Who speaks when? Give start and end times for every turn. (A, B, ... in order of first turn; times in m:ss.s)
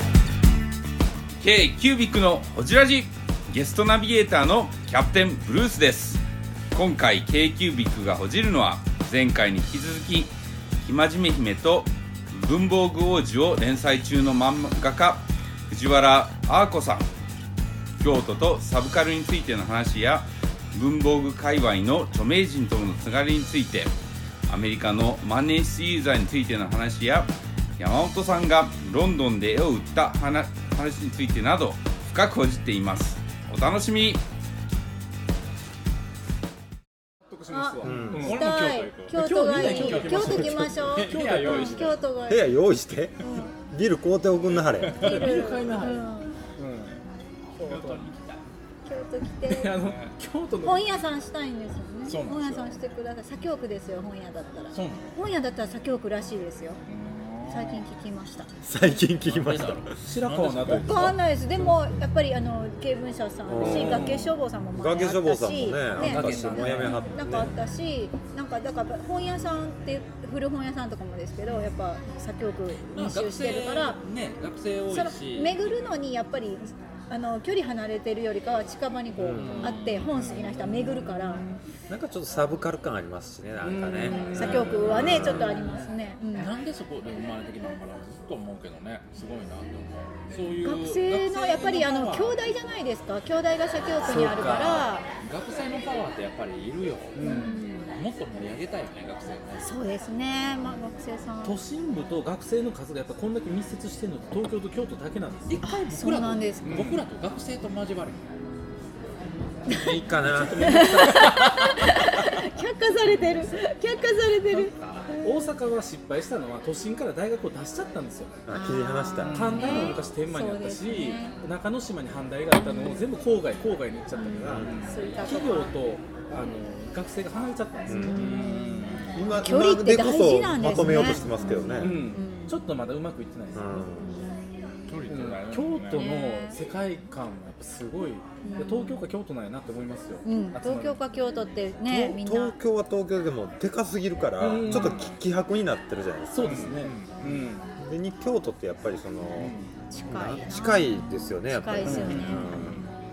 0:01.4-0:06.2 A
0:06.7-0:17.1 A
0:18.0-0:23.9 A
0:24.5-0:34.2 A
0:37.3-0:38.4 B
0:37.5-0:42.5 C
0:37.8-0:38.3 D
0:38.1-0:42.0 E
0:39.1-0:42.0 B
0:42.3-0:45.0 D
0:43.2-0:43.5 C
0:44.8-0:45.5 E
0:45.0-0:47.0 B
0:45.0-0:46.3 C
0:47.6-0:48.4 E
0:47.6-0:48.0 B
0:48.8-0:49.7 C
0:49.4-0:50.8 B
0:49.8-0:50.1 E
0:50.6-0:56.8 C
0:52.0-0:52.7 E
0:54.7-0:55.1 E
0:56.8-0:57.8 E
0:57.5-0:58.5 C
0:58.6-1:00.0 D
0:59.2-1:01.2 E
1:00.0-1:02.0 B
1:00.7-1:14.0 C
1:03.4-1:04.2 D
1:03.6-1:04.3 B
1:04.7-1:07.5 D
1:06.0-1:07.4 E
1:12.9-1:15.6 E
1:14.9-1:21.4 C
1:19.2-1:19.8 D
1:19.4-1:21.6 E
1:20.1-1:20.4 B
1:21.9-1:25.5 D
1:23.6-1:25.8 B
1:24.1-1:26.5 C
1:24.3-1:25.8 E
1:26.3-1:32.4 E
1:30.6-1:35.1 C
1:34.0-1:39.6 E
1:34.1-1:34.4 B
1:37.1-1:37.6 B
1:37.2-1:37.9 C
1:39.6-1:41.6 C
1:41.4-1:45.6 B
1:45.5-1:48.3 E
1:45.6-1:46.8 C
1:46.6-1:47.0 B
1:49.7-1:51.3 D
1:50.2-1:51.0 B
1:50.6-1:55.4 C
1:51.1-1:51.7 E
1:54.5-1:55.1 E
1:55.2-1:58.3 B
1:58.4-2:00.2 D
1:58.5-2:01.4 C
1:59.2-2:00.0 E
1:59.3-2:08.2 B
2:02.6-2:03.0 C
2:04.1-2:05.7 C
2:04.5-2:04.7 D
2:04.5-2:05.0 E
2:07.9-2:08.2 D
2:08.0-2:08.8 C
2:08.1-2:09.3 E
2:09.1-2:12.0 D
2:09.3-2:12.6 C
2:11.8-2:13.8 B
2:13.5-2:14.2 D
2:14.0-2:14.7 C
2:14.9-2:16.1 E
2:15.1-2:21.0 B
2:15.9-2:16.6 C
2:18.4-2:19.1 C
2:20.2-2:22.6 C
2:21.9-2:26.8 D
2:24.4-2:25.0 B
2:24.7-2:25.2 E
2:26.3-2:27.6 B
2:26.4-2:27.4 E
2:27.8-2:29.5 D
2:29.4-2:29.7 B
2:29.9-2:32.5 C
2:30.1-2:32.8 D
2:31.8-2:32.2 B
2:32.0-2:32.8 E